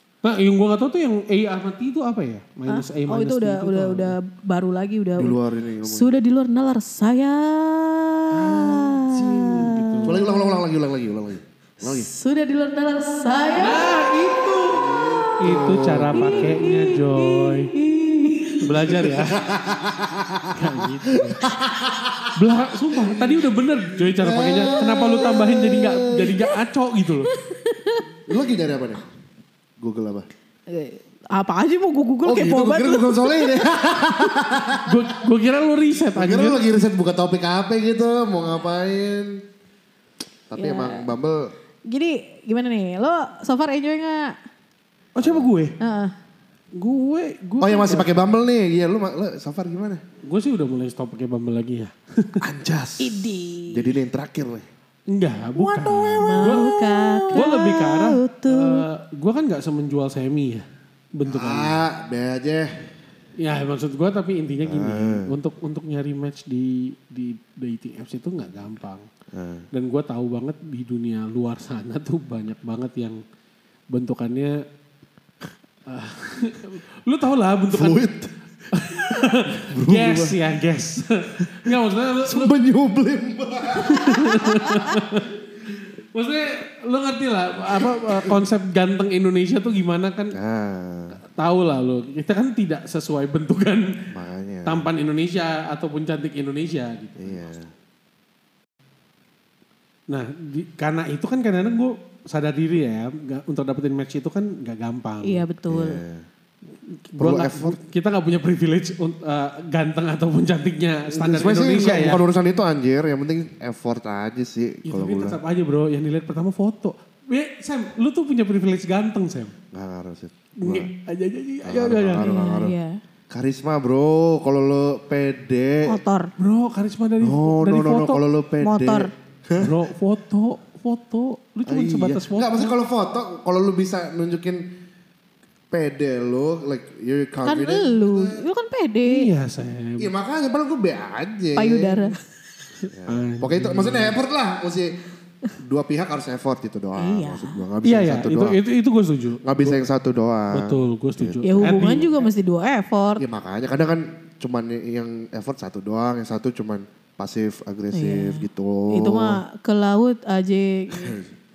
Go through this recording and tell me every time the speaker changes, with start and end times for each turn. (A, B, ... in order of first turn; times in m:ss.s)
0:00.2-0:04.2 A
0:02.7-0:10.4 B
0:05.2-0:06.1 C
0:08.3-0:12.1 C
0:09.5-0:10.2 A
0:11.8-0:13.9 B
0:13.6-0:14.9 A
0:14.7-0:16.5 C
0:15.4-0:17.7 A
0:16.1-0:19.1 B
0:18.6-0:19.4 A
0:18.8-0:22.3 C
0:20.5-0:21.4 A
0:22.3-0:27.3 A
0:24.0-0:26.4 C
0:27.2-0:28.1 B
0:28.3-0:29.0 C
0:29.8-0:30.3 C
0:30.7-0:33.8 B
0:32.2-0:35.1 C
0:34.8-0:36.6 A
0:36.2-0:39.4 C
0:40.5-0:41.4 C
0:40.6-0:41.1 B
0:41.9-0:44.4 B
0:45.2-0:45.8 A
0:45.2-0:45.5 C
0:45.8-0:46.2 B
0:46.8-0:48.2 A
0:47.6-0:50.0 C
0:50.2-0:52.4 A
0:52.4-0:54.7 C
0:53.0-0:54.0 B
0:55.1-1:01.8 A
0:55.6-0:57.5 C
0:56.2-0:58.9 B
1:01.2-1:02.9 C
1:03.4-1:09.0 A
1:04.6-1:05.3 C
1:09.3-1:09.7 C
1:09.7-1:13.2 A
1:13.9-1:14.6 A
1:15.9-1:18.1 A
1:17.7-1:18.3 C
1:18.7-1:22.6 A
1:19.1-1:20.4 C
1:21.4-1:25.0 C
1:23.8-1:30.4 A
1:27.7-1:28.4 C
1:30.3-1:31.2 C
1:31.4-1:33.9 A
1:34.1-1:34.9 C
1:34.6-1:37.5 A
1:37.2-1:37.7 C
1:40.1-1:45.4 A
1:45.2-1:46.0 B
1:45.7-1:46.3 C
1:47.1-1:52.2 A
1:47.2-1:47.8 C
1:51.1-1:55.4 C
1:54.9-1:59.5 A
1:59.7-2:00.9 C
2:00.6-2:02.3 A
2:01.6-2:02.8 C
2:02.2-2:03.0 B
2:03.3-2:06.0 C
2:05.9-2:06.3 B
2:06.4-2:08.2 A
2:07.2-2:09.8 C
2:08.6-2:09.1 B
2:09.6-2:12.8 A
2:11.6-2:14.7 C
2:15.7-2:18.4 C
2:17.4-2:19.3 B
2:19.1-2:20.1 A
2:20.0-2:22.1 C
2:21.6-2:22.2 B
2:22.9-2:24.2 A
2:22.9-2:24.9 C
2:25.6-2:28.6 C
2:27.0-2:27.6 B
2:27.8-2:29.8 A
2:29.4-2:32.1 C
2:30.5-2:32.1 A
2:31.4-2:33.2 B
2:33.2-2:39.4 C
2:37.9-2:41.2 B
2:41.0-2:41.3 C